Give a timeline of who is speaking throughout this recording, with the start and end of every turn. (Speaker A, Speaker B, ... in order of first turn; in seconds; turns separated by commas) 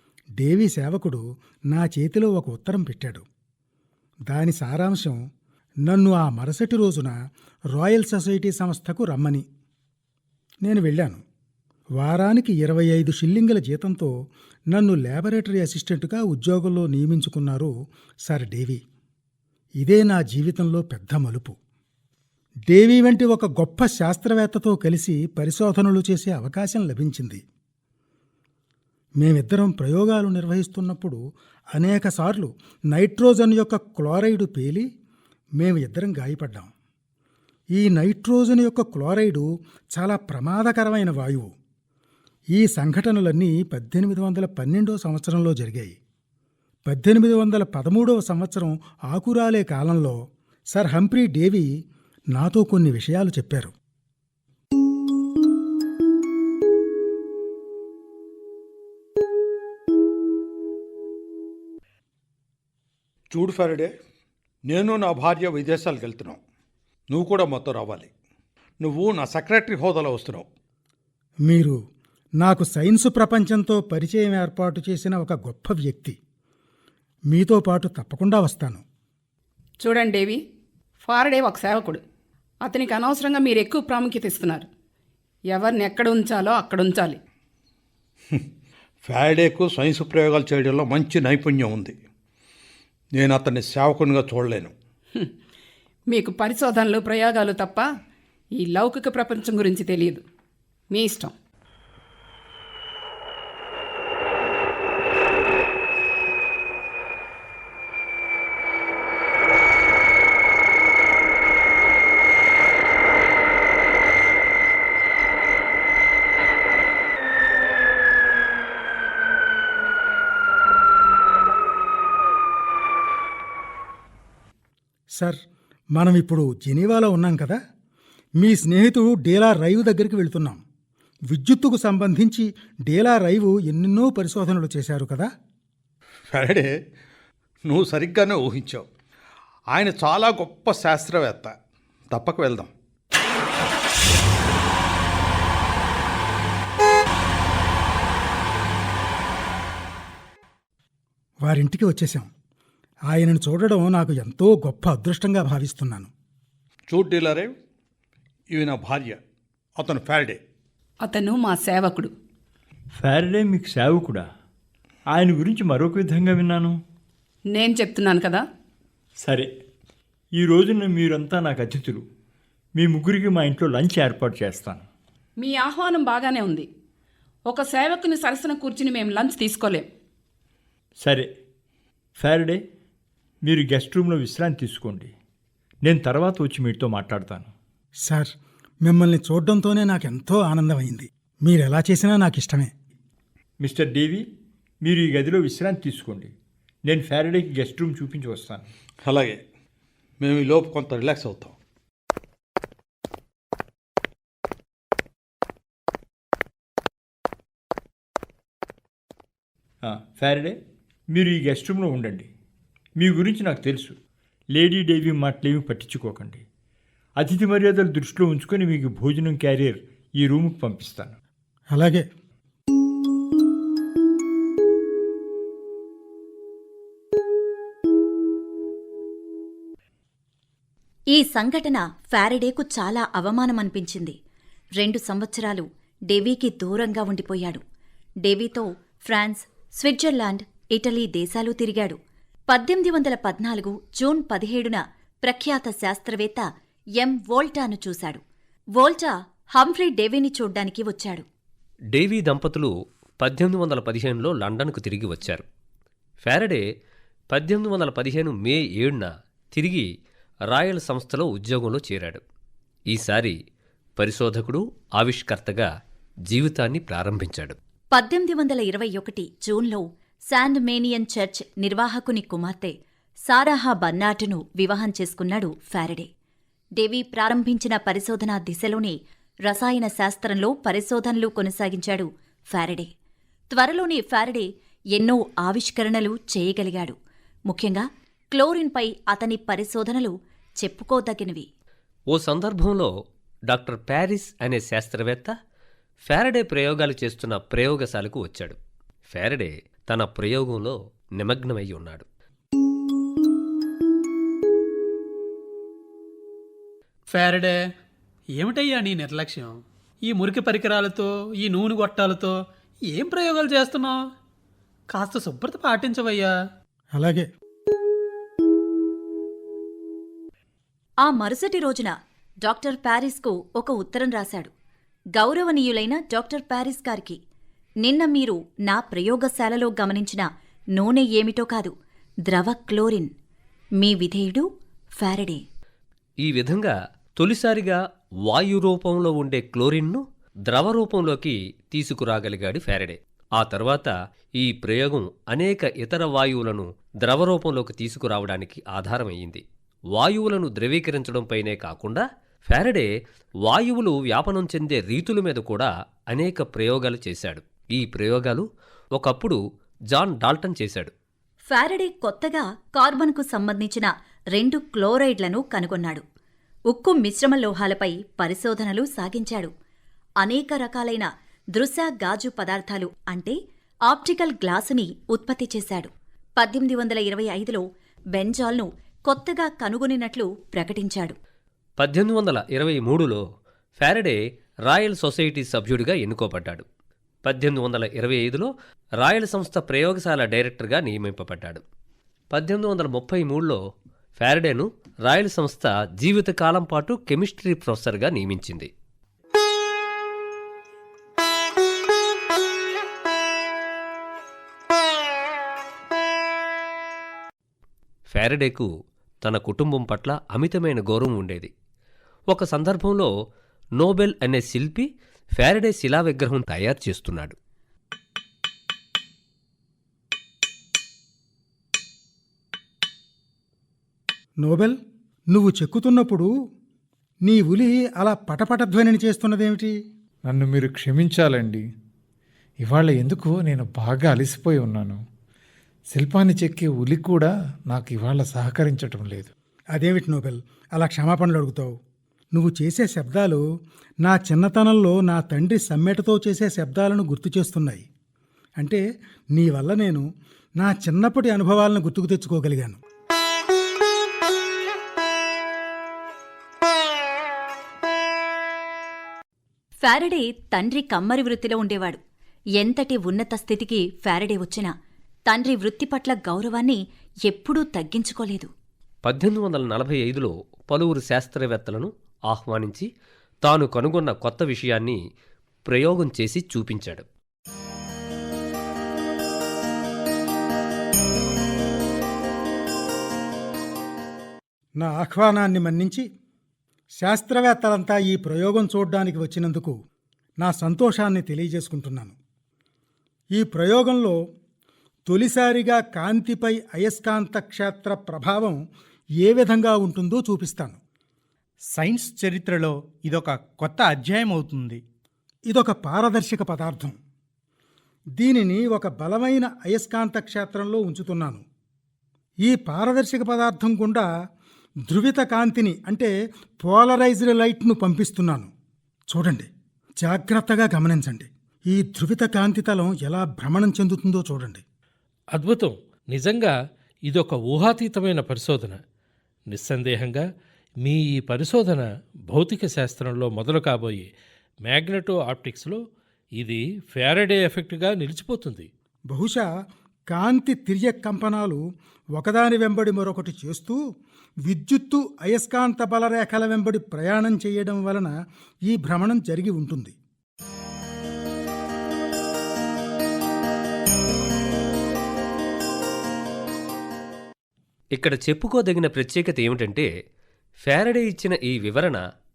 Speaker A: 0.4-3.2, Speaker A: 4.3-5.2, Speaker A: 5.9-7.2, Speaker A: 7.7-9.5, Speaker A: 10.6-11.2, Speaker A: 12.0-14.1, Speaker A: 14.7-17.7, Speaker A: 18.2-18.8, Speaker A: 19.8-21.6, Speaker A: 22.7-27.4, Speaker A: 29.2-31.2, Speaker A: 31.7-34.9, Speaker A: 35.6-36.7, Speaker A: 37.8-41.5, Speaker A: 42.5-46.0, Speaker A: 46.9-50.2, Speaker A: 50.7-51.7, Speaker A: 52.3-53.7, Speaker B: 63.3-63.9, Speaker B: 64.7-66.4, Speaker B: 67.1-68.1, Speaker B: 68.8-70.5, Speaker A: 71.5-71.8, Speaker A: 72.4-76.2, Speaker A: 77.3-78.8, Speaker C: 79.8-80.4, Speaker C: 81.0-82.0, Speaker C: 82.6-84.7, Speaker C: 85.5-87.2, Speaker B: 89.0-92.0, Speaker B: 93.2-94.7, Speaker C: 96.1-97.9, Speaker C: 98.6-100.2, Speaker C: 100.9-101.3, Speaker A: 126.0-127.6, Speaker A: 128.4-130.6, Speaker A: 131.3-135.3, Speaker B: 136.3-136.7, Speaker B: 137.7-138.9, Speaker B: 139.7-141.5, Speaker B: 142.1-142.7, Speaker A: 151.4-152.3, Speaker A: 153.1-156.1, Speaker B: 156.9-157.5, Speaker B: 158.5-159.2, Speaker B: 159.8-160.4, Speaker C: 161.0-162.1, Speaker D: 163.0-164.2, Speaker D: 165.1-166.8, Speaker C: 167.5-168.4, Speaker D: 169.2-169.5, Speaker D: 170.3-172.0, Speaker D: 172.8-174.8, Speaker C: 175.4-176.7, Speaker C: 177.5-179.9, Speaker D: 181.0-181.3, Speaker D: 182.2-182.6, Speaker D: 183.4-185.1, Speaker D: 185.8-187.5, Speaker A: 188.1-188.3, Speaker A: 188.8-192.7, Speaker D: 193.6-194.2, Speaker D: 194.8-196.3, Speaker D: 196.8-198.7, Speaker B: 199.1-199.4, Speaker B: 200.2-201.6, Speaker D: 209.8-210.6, Speaker D: 211.1-212.3, Speaker D: 212.9-213.9, Speaker D: 214.5-216.4, Speaker D: 217.2-221.2, Speaker A: 221.7-222.1, Speaker E: 231.1-234.2, Speaker E: 234.8-237.6, Speaker E: 238.2-242.0, Speaker E: 242.5-246.4, Speaker E: 247.0-248.2, Speaker E: 248.8-251.2, Speaker F: 251.9-252.7, Speaker F: 253.2-255.4, Speaker F: 256.2-256.6, Speaker F: 257.3-259.9, Speaker F: 260.5-262.2, Speaker F: 262.9-263.4, Speaker F: 264.0-265.7, Speaker F: 266.3-267.6, Speaker E: 267.9-272.8, Speaker E: 273.3-276.1, Speaker E: 276.8-282.9, Speaker E: 283.5-287.0, Speaker E: 287.5-291.5, Speaker F: 292.1-292.9, Speaker F: 293.5-295.3, Speaker F: 296.1-298.6, Speaker F: 299.1-302.1, Speaker G: 307.1-307.6, Speaker G: 308.3-312.4, Speaker G: 312.9-314.0, Speaker G: 314.9-316.3, Speaker A: 316.9-317.3, Speaker E: 321.0-321.9, Speaker E: 322.4-324.5, Speaker E: 325.2-327.2, Speaker E: 327.8-331.7, Speaker E: 332.3-333.1, Speaker E: 333.8-334.5, Speaker E: 335.0-335.4, Speaker F: 336.2-349.4, Speaker F: 349.9-352.9, Speaker F: 353.4-359.4, Speaker F: 359.9-360.9, Speaker E: 361.5-366.0, Speaker E: 366.7-369.5, Speaker E: 370.2-373.4, Speaker E: 373.9-381.2, Speaker F: 381.8-383.2, Speaker F: 383.8-386.6, Speaker F: 387.2-391.6, Speaker F: 392.3-393.6, Speaker F: 394.2-398.7, Speaker F: 408.1-408.7, Speaker F: 409.2-411.5, Speaker F: 412.3-413.1, Speaker F: 413.8-414.9, Speaker F: 415.4-417.3, Speaker A: 424.4-424.8, Speaker A: 425.3-426.3, Speaker A: 427.2-429.7, Speaker H: 430.3-431.6, Speaker H: 432.6-435.0, Speaker H: 435.9-439.3, Speaker A: 439.7-441.7, Speaker A: 442.3-443.4, Speaker A: 444.0-447.9, Speaker A: 449.3-450.1, Speaker A: 450.6-452.8, Speaker E: 459.8-462.0, Speaker E: 462.6-464.7, Speaker E: 465.3-468.5, Speaker F: 469.1-472.9, Speaker F: 473.4-475.0, Speaker F: 475.7-477.1, Speaker A: 484.8-486.1, Speaker A: 487.0-489.8, Speaker A: 490.4-492.2, Speaker A: 493.3-494.2, Speaker A: 495.1-498.6, Speaker A: 499.2-500.8, Speaker I: 501.7-504.8, Speaker A: 505.5-507.0, Speaker A: 508.2-511.4, Speaker A: 512.4-514.1, Speaker A: 514.9-518.5, Speaker A: 519.1-519.5, Speaker A: 520.0-524.6, Speaker J: 525.3-526.5, Speaker J: 527.1-528.8, Speaker J: 529.5-530.2, Speaker J: 530.8-534.1, Speaker J: 534.6-535.8, Speaker J: 536.4-538.7, Speaker A: 539.1-539.5, Speaker A: 540.1-541.6, Speaker A: 542.1-543.8, Speaker A: 544.5-548.1, Speaker A: 548.7-549.9, Speaker F: 558.0-559.9, Speaker F: 560.6-562.0